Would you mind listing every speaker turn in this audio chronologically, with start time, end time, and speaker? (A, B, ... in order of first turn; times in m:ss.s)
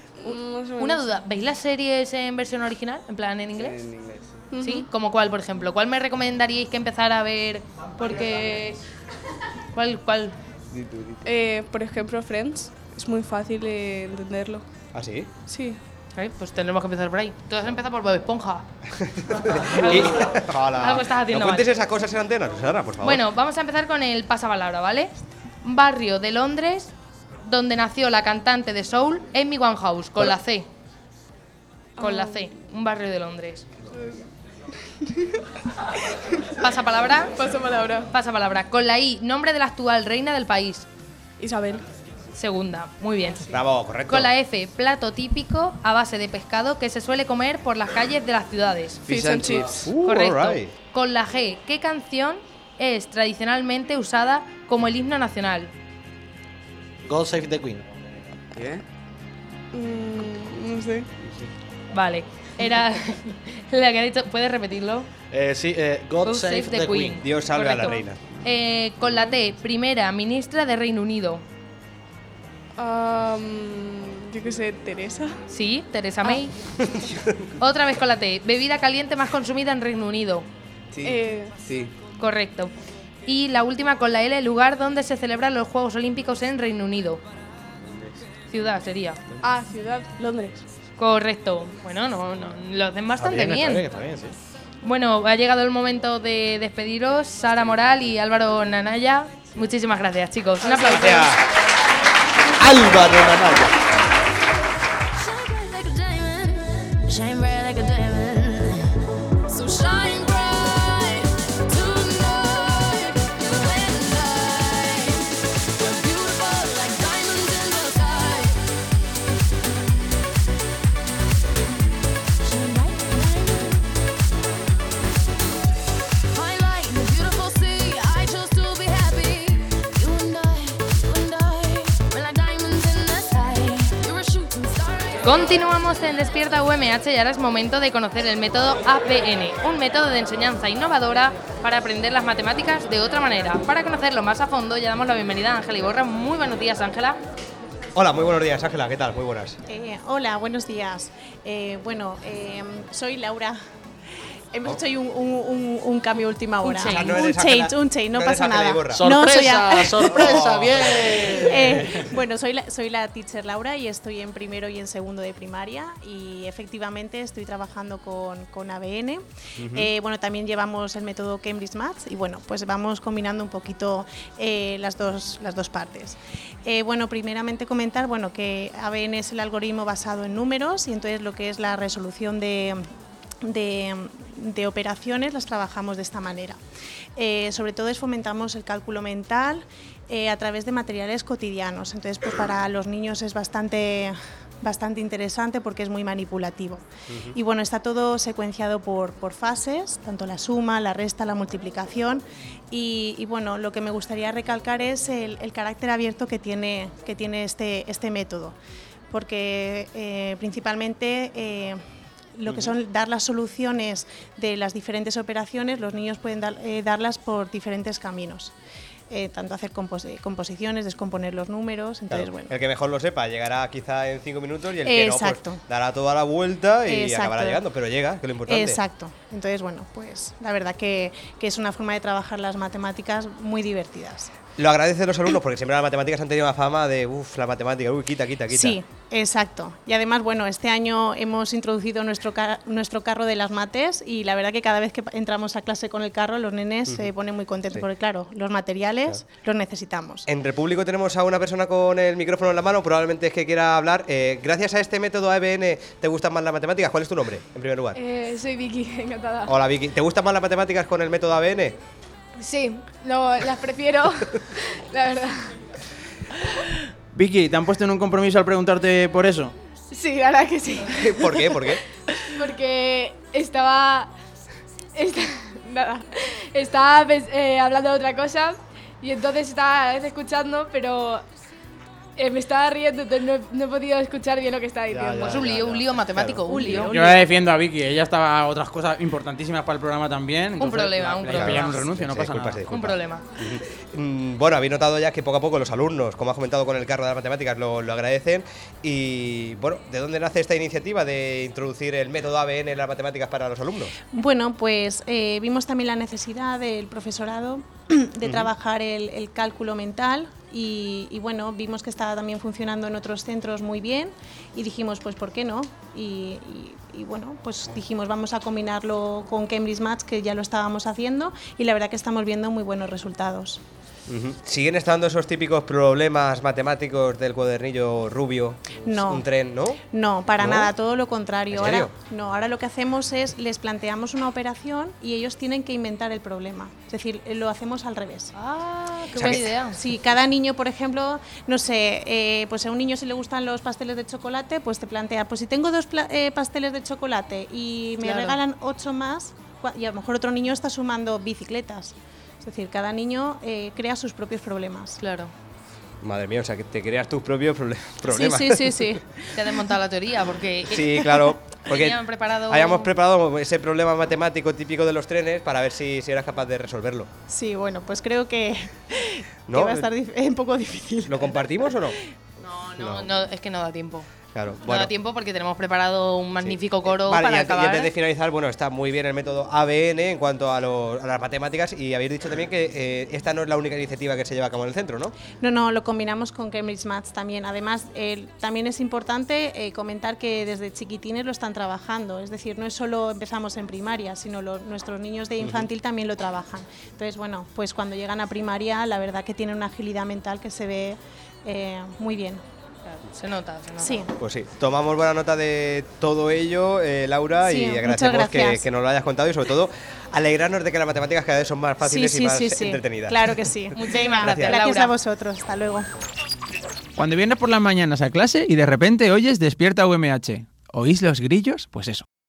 0:00.2-0:01.2 A
0:00.8-0:03.8 B
0:03.6-0:04.4 C
0:04.5-0:04.9 A
0:04.6-0:08.8 B
0:09.7-0:10.4 B
0:10.7-0:11.3 C
0:11.2-0:14.6 A
0:14.9-0:15.3 D
0:15.5-0:15.8 A
0:16.2-0:18.7 B
0:19.4-0:23.2 D
0:19.6-0:21.7 B
0:23.0-0:26.9 B
0:27.4-0:30.7 B
0:32.0-0:32.5 A
0:32.0-0:33.7 B
0:33.9-0:34.2 A
0:36.6-0:37.3 B
0:37.3-0:38.1 A
0:38.1-0:40.9 B
0:41.4-0:41.8 A
0:42.3-0:49.0 B
0:43.5-0:44.3 D
0:49.1-0:49.9 C
0:49.1-0:49.9 A
0:49.8-0:50.7 D
0:50.0-0:55.7 B
0:57.0-0:57.8 E
0:58.5-0:58.8 C
0:59.7-1:01.1 A
1:01.9-1:05.1 B
1:05.3-1:07.2 E
1:06.2-1:11.4 B
1:07.2-1:08.2 D
1:09.1-1:09.3 A
1:12.8-1:15.4 A
1:15.5-1:16.5 B
1:16.2-1:16.5 A
1:17.6-1:20.5 B
1:20.9-1:21.9 C
1:21.0-1:21.6 A
1:22.2-1:22.7 B
1:23.3-1:27.2 B
1:28.5-1:29.2 B
1:29.4-1:30.6 A
1:31.0-1:33.9 B
1:33.2-1:34.4 E
1:34.8-1:41.3 B
1:40.7-1:41.2 A
1:40.9-1:41.4 D
1:42.6-1:43.7 E
1:42.8-1:43.2 D
1:45.2-1:48.9 F
1:49.5-1:58.6 F
2:02.4-2:03.8 F
2:06.3-2:15.6 F
2:15.2-2:27.2 B
2:28.0-2:29.6 D
2:29.7-2:33.6 G
2:34.5-3:02.9 G
2:36.6-2:37.2 B
2:36.8-2:39.1 D
2:38.9-2:42.1 E
2:40.1-2:41.2 D
2:49.6-2:49.9 D
3:03.4-3:06.6 G
3:07.2-3:28.6 G
3:17.1-3:17.4 D
3:29.1-3:31.8 G
3:32.4-3:38.5 G
3:32.5-3:32.7 D
3:39.1-3:42.5 G
3:42.1-3:48.8 D
3:44.8-3:45.6 G
3:46.8-3:47.6 G
3:48.5-3:54.3 G
3:54.6-3:58.8 D
3:58.5-4:10.3 G
4:10.3-4:18.0 D
4:18.0-4:19.5 A
4:19.5-4:21.8 D
4:22.4-4:24.4 H
4:24.9-4:25.5 H
4:27.1-4:29.5 I
4:29.9-4:31.7 H
4:31.0-4:31.8 D
4:32.3-4:34.1 H
4:35.0-4:41.2 H
4:42.2-4:45.3 H
4:44.9-4:46.0 E
4:45.2-4:47.0 B
4:46.5-4:47.2 H
4:46.6-4:46.8 G
4:46.9-4:52.7 I
4:50.6-4:51.9 B
4:51.3-5:03.9 D
4:52.7-4:53.3 B
5:04.1-5:23.6 G
5:08.2-5:08.5 D
5:24.1-5:29.8 D
5:28.8-5:29.3 G
5:29.8-5:38.3 G
5:30.4-5:30.7 D
5:31.5-5:31.9 D
5:38.3-5:39.8 B
5:39.2-5:39.5 D
5:39.2-5:55.0 G
5:48.0-5:48.4 B
5:55.0-5:55.3 B
5:56.0-5:59.0 D
5:58.2-5:59.0 G
5:58.2-5:58.9 H
5:59.3-6:02.9 B
6:00.7-6:07.1 D
6:07.3-6:11.7 G
6:09.5-6:09.9 D
6:11.1-6:12.0 D
6:12.4-6:14.1 B
6:12.8-6:13.1 D
6:14.3-6:14.9 D
6:14.6-6:17.9 B
6:16.4-6:25.1 D
6:25.3-6:42.4 G
6:35.4-6:35.7 D
6:42.9-6:44.1 B
6:43.8-6:44.1 G
6:44.2-6:53.4 D
6:47.4-6:48.7 G
6:51.8-6:55.9 G
6:53.7-6:54.9 B
6:54.2-6:54.6 D
6:57.0-7:02.0 I